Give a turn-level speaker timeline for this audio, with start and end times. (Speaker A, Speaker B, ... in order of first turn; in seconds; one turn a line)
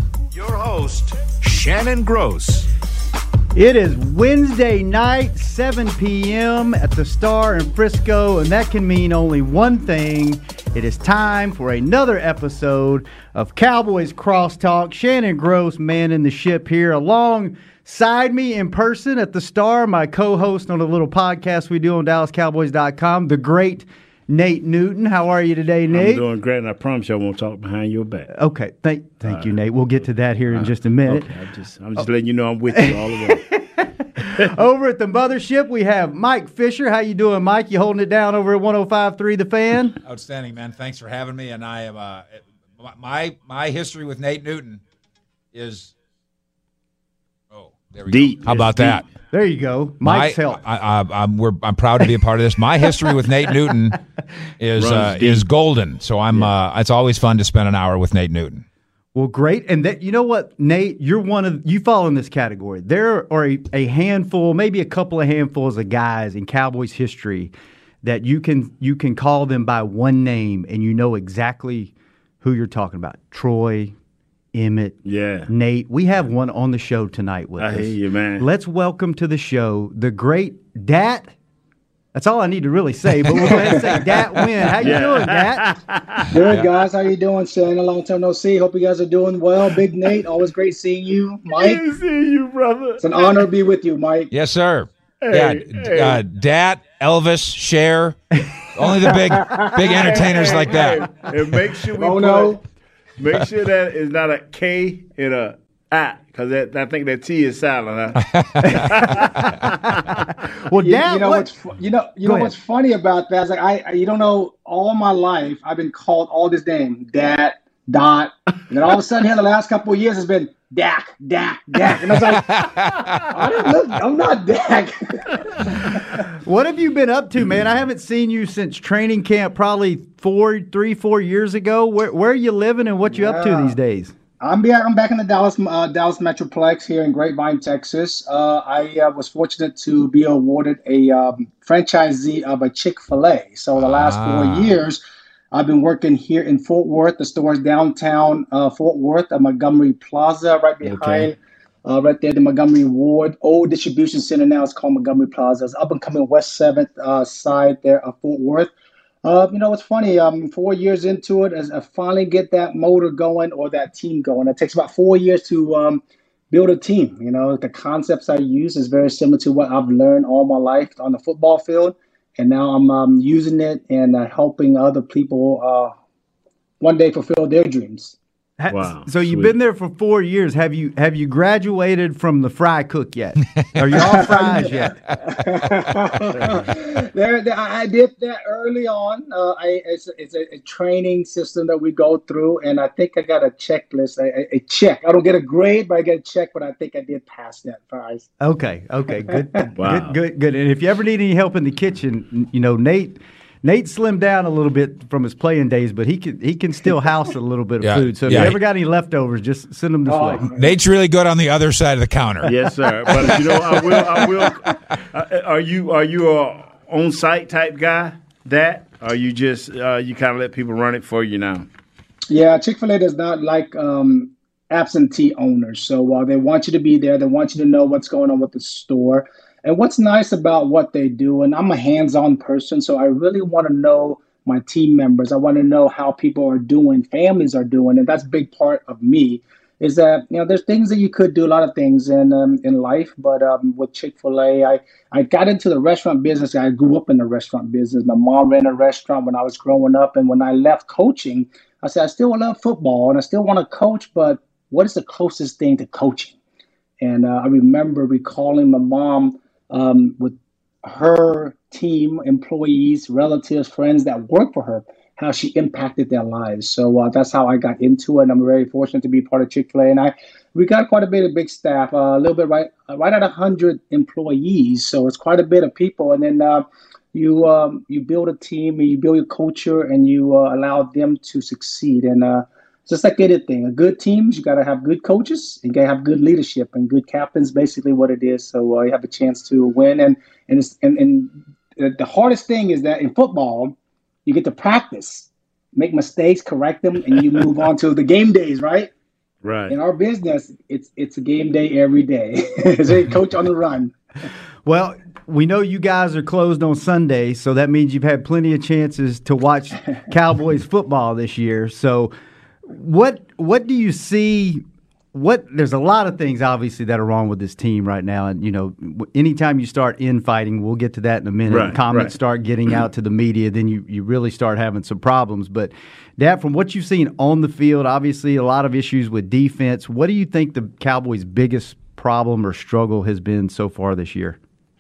Speaker A: 0.3-2.7
Speaker B: 3.5-26.2
Speaker C: 25.9-28.3
Speaker B: 28.3-31.3
Speaker C: 29.2-29.5
Speaker C: 30.5-33.4
Speaker B: 32.7-40.0
Speaker D: 40.0-44.8
Speaker D: 45.5-45.9
Speaker D: 47.5-49.0
Speaker C: 48.1-49.0
Speaker B: 49.3-50.6
Speaker D: 50.0-54.0
Speaker D: 54.6-58.6
Speaker C: 54.8-55.5
Speaker B: 59.1-74.0
Speaker B: 74.5-81.3
Speaker C: 75.0-75.5
Speaker C: 77.6-78.5
Speaker B: 82.1-85.8
Speaker C: 83.5-86.4
Speaker E: 86.3-91.8
Speaker C: 91.6-93.4
Speaker E: 93.0-94.3
Speaker D: 94.3-101.1
Speaker C: 95.2-96.2
Speaker E: 99.2-99.8
Speaker C: 99.8-102.6
Speaker E: 102.0-102.6
Speaker C: 103.2-110.1
Speaker D: 108.2-109.5
Speaker B: 108.6-111.5
Speaker E: 110.8-122.5
Speaker B: 112.2-112.5
Speaker D: 122.0-123.5
Speaker E: 123.3-126.0
Speaker B: 126.2-134.1
Speaker E: 133.1-133.8
Speaker E: 134.4-145.0
Speaker D: 143.8-144.7
Speaker E: 145.5-158.7
Speaker D: 150.9-151.3
Speaker E: 159.2-175.9
Speaker E: 176.8-178.2
Speaker B: 178.6-185.0
Speaker C: 178.7-179.5
Speaker E: 183.9-198.3
Speaker B: 198.4-210.5
Speaker C: 199.8-200.2
Speaker D: 207.8-208.6
Speaker C: 208.3-208.6
Speaker E: 210.1-210.7
Speaker D: 210.5-212.5
Speaker C: 212.4-221.7
Speaker D: 213.2-213.8
Speaker E: 222.3-256.4
Speaker E: 257.0-293.8
Speaker E: 294.3-298.9
Speaker C: 299.4-299.7
Speaker E: 299.7-303.9
Speaker B: 304.6-312.1
Speaker B: 312.6-334.4
Speaker C: 321.5-322.1